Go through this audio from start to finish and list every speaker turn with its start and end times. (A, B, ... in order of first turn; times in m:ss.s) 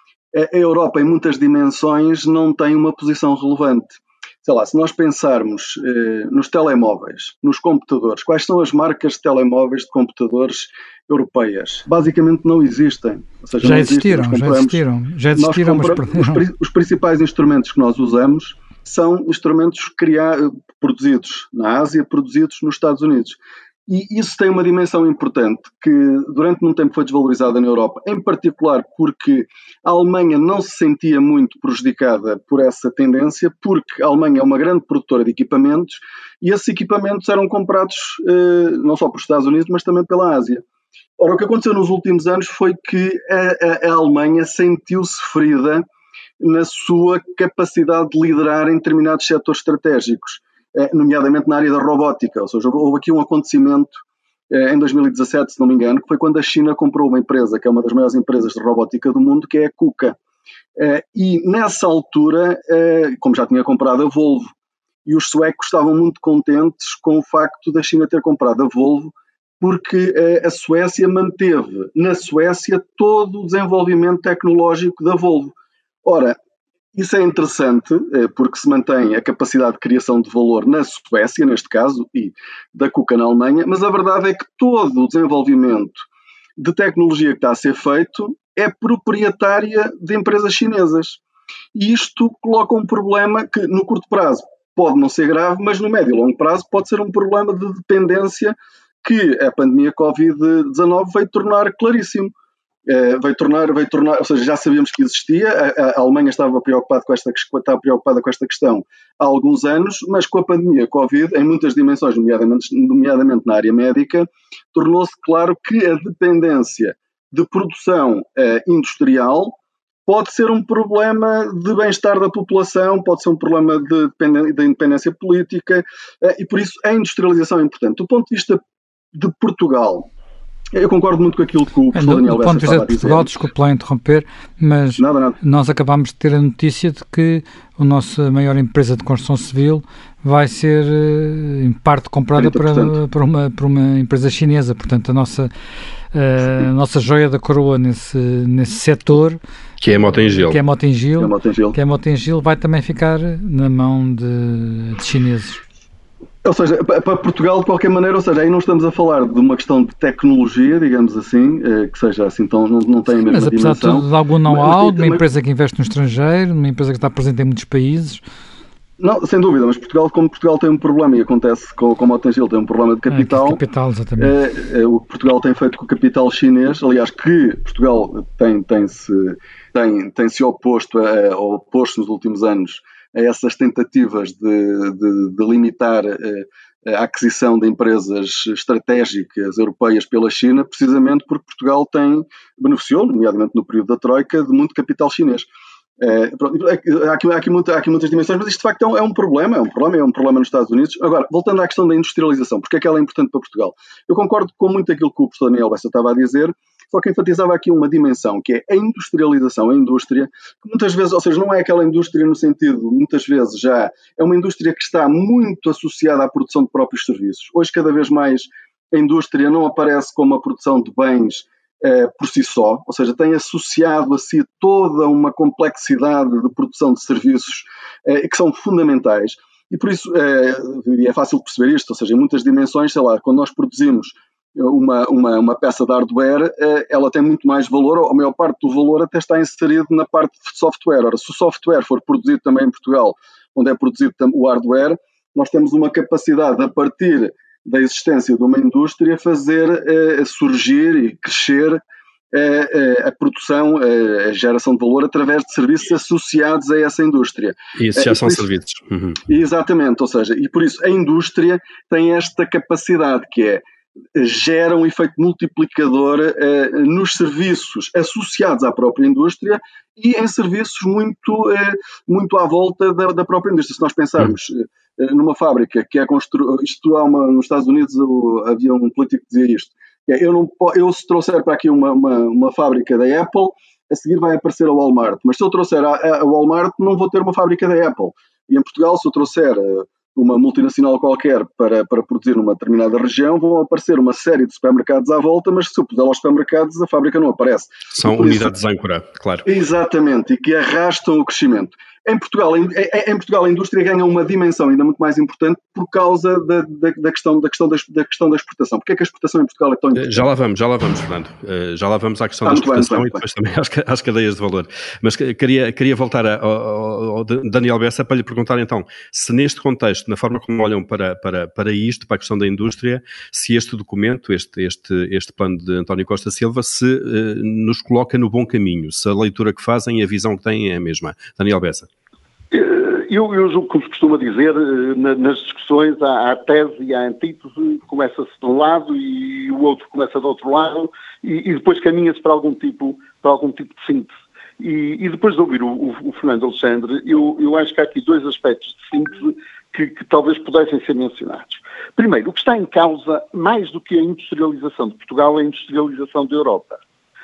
0:00.3-0:14.8 A
0:13.6-0:16.4 B
0:15.3-0:40.6 A
0:41.2-0:45.9 A
0:46.4-1:00.2 A
1:00.8-1:04.5 A
1:05.1-1:16.4 A
1:16.9-1:26.1 A
1:26.6-1:31.2 A
1:31.7-1:42.3 A
1:42.9-2:08.6 A
2:09.1-2:10.1 A
2:10.7-2:13.3 A
2:11.9-2:25.5 B
2:15.0-2:15.4 A
2:22.4-2:23.0 A
2:26.1-2:35.6 B
2:29.8-2:30.6 C
2:31.2-2:31.8 A
2:36.4-2:45.2 A
2:43.3-2:48.2 B
2:49.0-2:53.6 A
2:53.1-2:54.3 B
2:54.2-3:15.5 A
3:16.0-4:11.8 A
4:12.3-4:18.4 A
4:17.8-4:19.2 C
4:19.3-4:58.5 A
4:57.9-4:59.4 C
4:59.4-5:10.3 A
5:09.9-5:31.9 C
5:12.4-5:13.2 A
5:32.5-5:56.8 D